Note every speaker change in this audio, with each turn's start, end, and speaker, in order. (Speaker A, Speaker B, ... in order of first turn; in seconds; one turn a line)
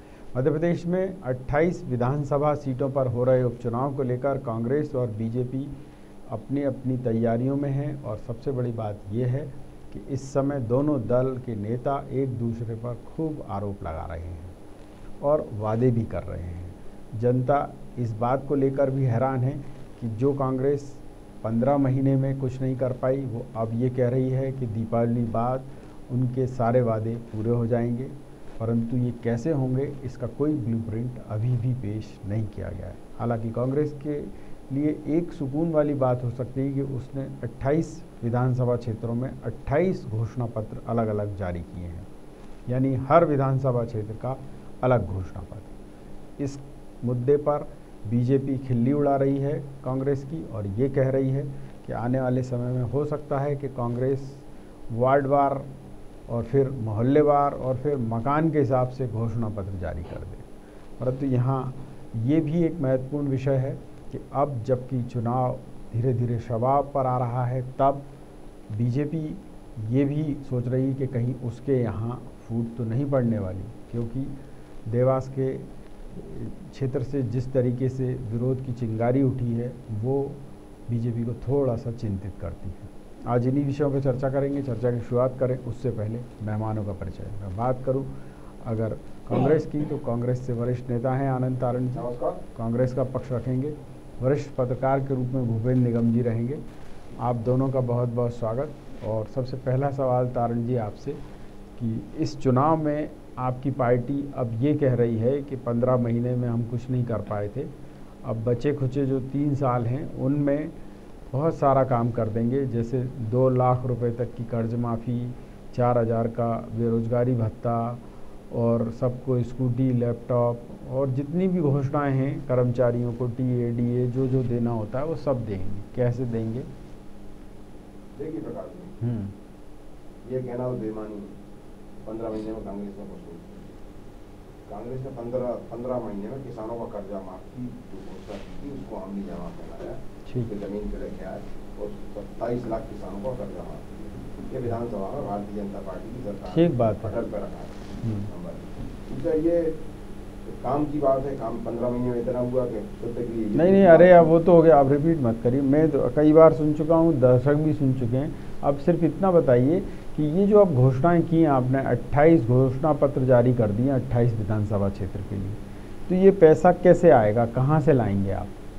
Speaker A: 0.3-5.7
Speaker A: 6.3-14.5
Speaker A: 15.2-42.1
Speaker A: 42.7-45.7
Speaker A: 46.4-55.7
Speaker A: 56.3-60.5
Speaker A: 61.0-68.0
Speaker A: 68.7-74.3
Speaker A: 74.9-88.1
Speaker A: 88.6-96.6
Speaker B: 92.0-92.4
Speaker A: 97.2-101.2
Speaker A: 101.8-107.7
Speaker A: 108.2-110.7
Speaker A: 111.3-126.7
Speaker B: 128.2-128.9
Speaker A: 129.0-129.3
Speaker B: 130.2-131.3
Speaker B: 132.1-133.7
Speaker B: 134.7-149.8
Speaker A: 146.5-147.2
Speaker A: 148.0-148.3
Speaker B: 150.5-154.3
Speaker A: 153.6-168.5